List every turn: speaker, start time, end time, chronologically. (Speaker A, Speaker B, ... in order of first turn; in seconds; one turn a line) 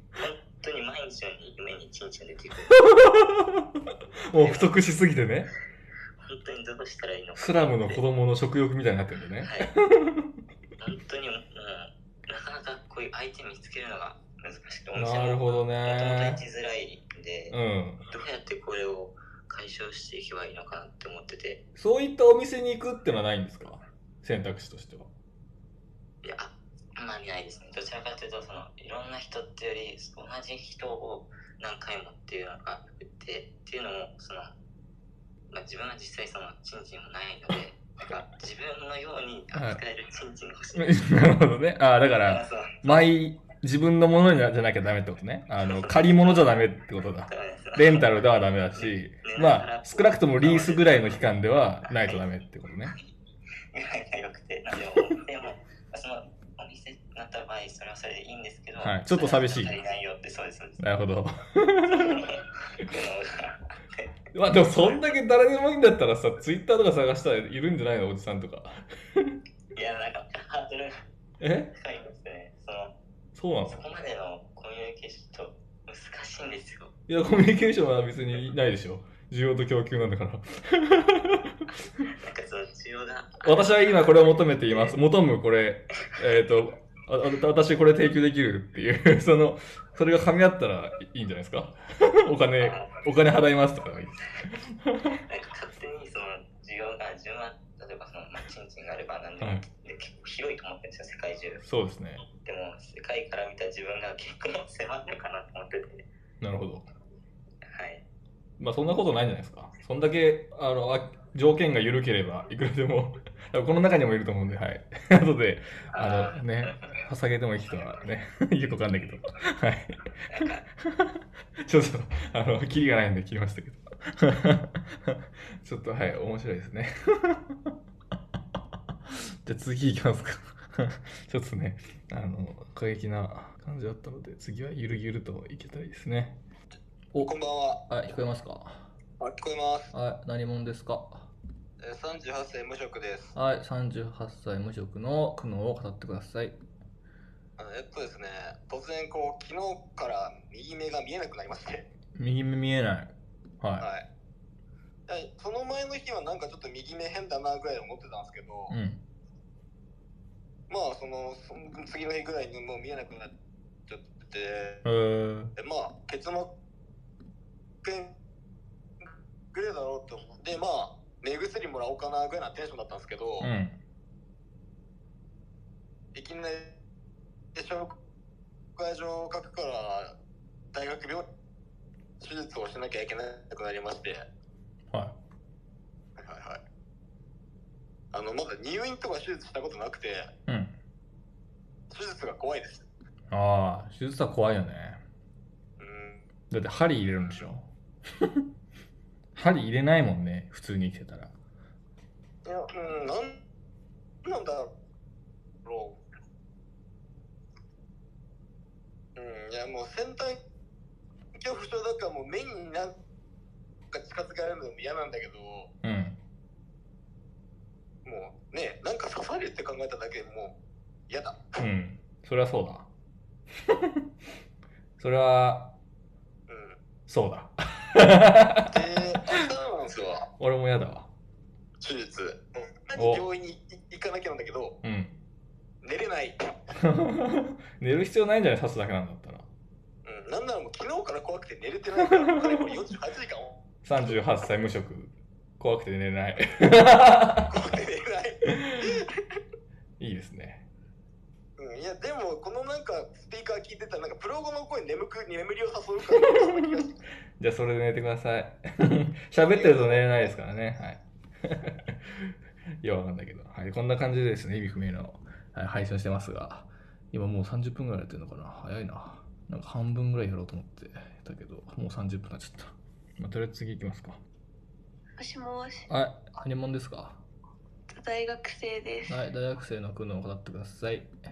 Speaker A: 0.2-2.8
Speaker B: 2.8-3.6
Speaker B: 4.3-5.5
Speaker A: 4.4-4.7
Speaker A: 6.2-8.0
Speaker B: 7.4-10.3
Speaker A: 9.4-9.7
Speaker A: 10.8-17.6
Speaker B: 14.9-16.4
Speaker B: 17.5-18.0
Speaker A: 18.1-21.6
Speaker B: 21.8-25.1
Speaker A: 26.2-34.5
Speaker A: 35.5-41.0
Speaker B: 39.5-39.8
Speaker B: 40.8-53.0
Speaker A: 42.2-43.1
Speaker A: 45.6-46.5
Speaker A: 47.3-48.1
Speaker A: 48.8-51.2
Speaker A: 51.9-52.2
Speaker A: 53.7-60.8
Speaker B: 58.8-59.8
Speaker B: 60.8-62.2
Speaker A: 61.9-65.0
Speaker B: 64.3-69.4
Speaker A: 69.8-71.0
Speaker B: 71.4-71.7
Speaker A: 71.7-73.0
Speaker B: 73.3-73.9
Speaker A: 73.7-76.9
Speaker B: 77.1-81.7
Speaker A: 82.1-85.0
Speaker B: 83.4-94.3
Speaker A: 92.6-93.1
Speaker A: 95.2-101.6
Speaker B: 101.6-102.2
Speaker A: 102.4-106.1
Speaker B: 106.4-106.9
Speaker A: 107.7-108.0
Speaker B: 108.6-120.4
Speaker A: 116.0-116.4
Speaker A: 120.3-120.6
Speaker B: 121.7-127.5
Speaker B: 129.4-136.4
Speaker B: 137.1-138.9
Speaker C: 137.2-137.8
Speaker C: 139.2-139.9
Speaker B: 139.9-141.3
Speaker C: 141.8-143.3
Speaker B: 143.3-146.6
Speaker C: 147.6-151.9
Speaker B: 152.2-153.9
Speaker C: 153.8-154.1
Speaker C: 155.1-158.7
Speaker B: 158.7-159.0
Speaker C: 160.7-163.3
Speaker C: 163.9-164.8
Speaker B: 164.8-165.5
Speaker C: 165.6-166.5
Speaker C: 167.8-168.1
Speaker C: 169.0-173.5
Speaker B: 173.4-173.8
Speaker C: 176.2-176.8
Speaker C: 177.6-177.9
Speaker C: 178.8-180.1
Speaker C: 180.7-181.2
Speaker C: 182.2-184.2
Speaker C: 186.2-186.6
Speaker C: 188.1-190.3
Speaker B: 190.5-190.8
Speaker C: 191.9-192.8
Speaker B: 193.3-195.0
Speaker C: 195.8-196.2
Speaker B: 196.5-197.7
Speaker B: 199.3-201.3
Speaker C: 202.4-203.4
Speaker C: 204.2-204.7
Speaker C: 205.7-206.0
Speaker C: 209.2-210.4
Speaker C: 211.4-212.9
Speaker C: 213.9-215.7
Speaker B: 215.8-216.2
Speaker C: 218.1-220.6
Speaker C: 221.1-221.4
Speaker B: 221.6-222.9
Speaker B: 225.0-225.7
Speaker C: 226.5-226.8
Speaker B: 227.1-228.7
Speaker C: 228.7-230.3
Speaker B: 230.4-231.1
Speaker C: 231.8-234.8
Speaker B: 232.9-233.2
Speaker B: 234.8-235.2
Speaker C: 235.8-236.6
Speaker B: 236.8-239.5
Speaker C: 240.1-244.1
Speaker B: 242.1-242.7
Speaker B: 243.8-247.5
Speaker C: 247.5-248.4
Speaker B: 250.0-250.7
Speaker C: 251.6-256.9
Speaker B: 256.2-256.8
Speaker B: 257.4-262.0
Speaker C: 259.3-260.3
Speaker B: 262.8-274.2
Speaker D: 275.2-275.9
Speaker B: 275.9-277.2
Speaker D: 277.9-279.2
Speaker B: 279.1-281.1